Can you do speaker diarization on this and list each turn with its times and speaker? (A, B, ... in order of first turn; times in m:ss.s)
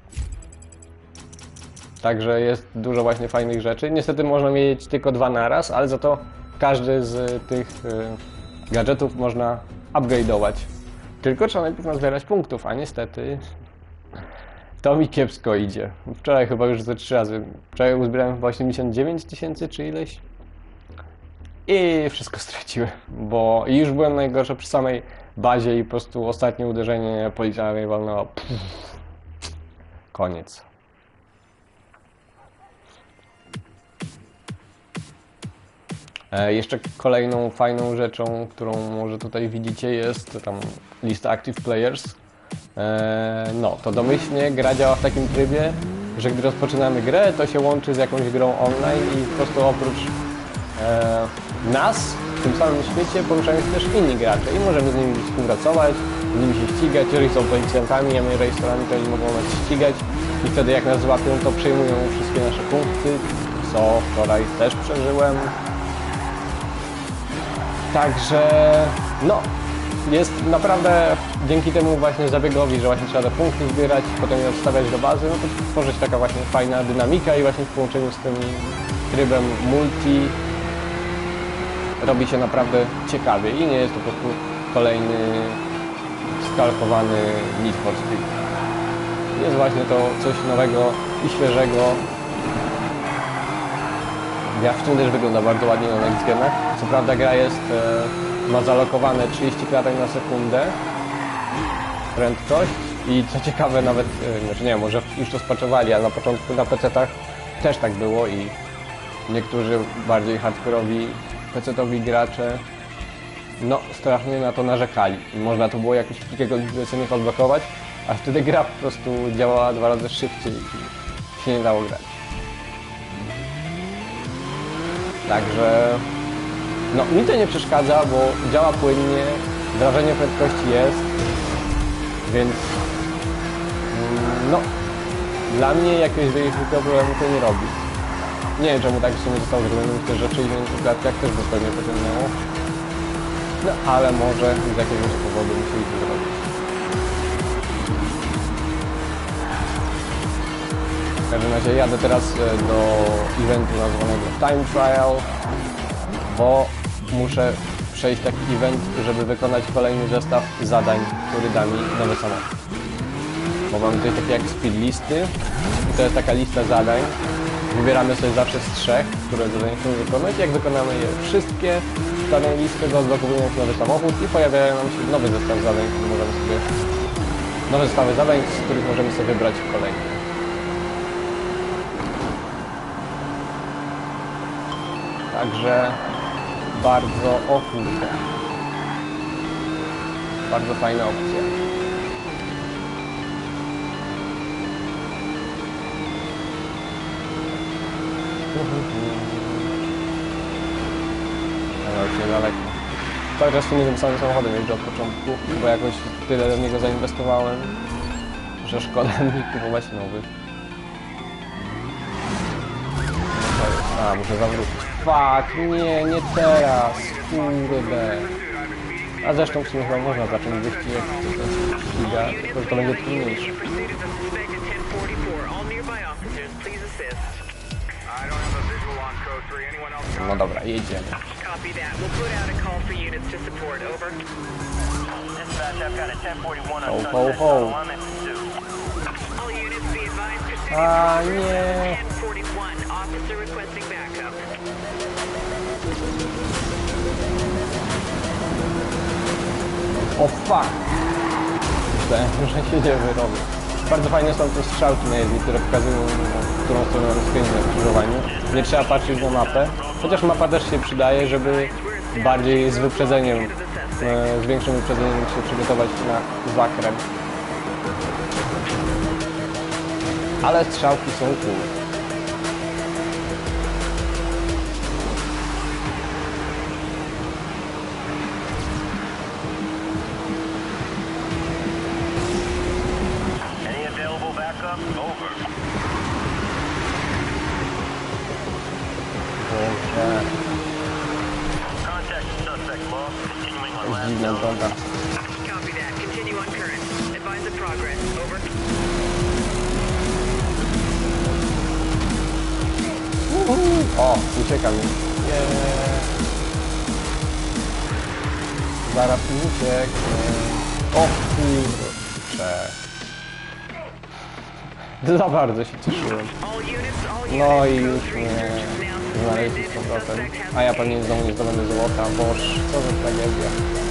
0:02.0-0:10.7 A
0:11.2-0:13.4 A
0:14.8-0:20.2 A
0:21.7-0:29.0 A
0:30.1-0:30.6 A
0:36.3-0:42.2 A
0:42.8-0:50.2 A
0:50.8-1:05.6 A
1:07.9-1:20.4 A
1:22.0-1:25.6 A
1:26.3-1:28.4 A
1:29.3-1:32.0 A
1:34.4-1:40.8 A
1:42.1-1:48.6 A
1:49.3-1:52.6 A
1:53.6-2:02.2 A
2:05.3-2:06.1 A
2:06.9-2:11.2 A
2:12.2-2:12.8 A
2:13.9-2:14.7 A
2:15.5-2:17.9 A
2:18.6-2:22.4 A
2:23.6-2:26.4 A
2:31.3-2:35.3 A
2:36.2-2:42.5 A
2:43.7-2:47.2 A
2:47.7-2:56.7 A
2:57.7-3:00.2 A
3:05.3-3:06.0 A
3:06.7-3:08.3 A
3:10.5-3:11.6 A
3:18.5-3:19.7 A
3:21.8-3:22.8 A
3:23.4-3:27.8 A
3:28.6-3:30.3 A
3:33.3-3:38.4 A
3:39.2-3:43.6 A
3:43.5-3:47.4 B
3:50.1-3:51.2 A
3:51.3-3:54.2 B
3:55.4-3:58.4 C
3:56.8-3:57.8 A
3:59.4-4:01.0 B
4:00.7-4:02.1 A
4:01.7-4:04.4 B
4:10.2-4:10.8 A
4:11.9-4:27.1 A
4:30.4-4:31.7 A
4:43.7-4:45.4 C
4:49.4-4:50.3 A
4:51.8-4:53.8 C
4:53.8-4:54.9 A
4:55.4-4:58.4 B
5:03.3-5:06.1 A
5:08.8-5:12.8 A
5:15.0-5:16.4 A
5:16.5-5:17.8 B
5:17.2-5:23.6 A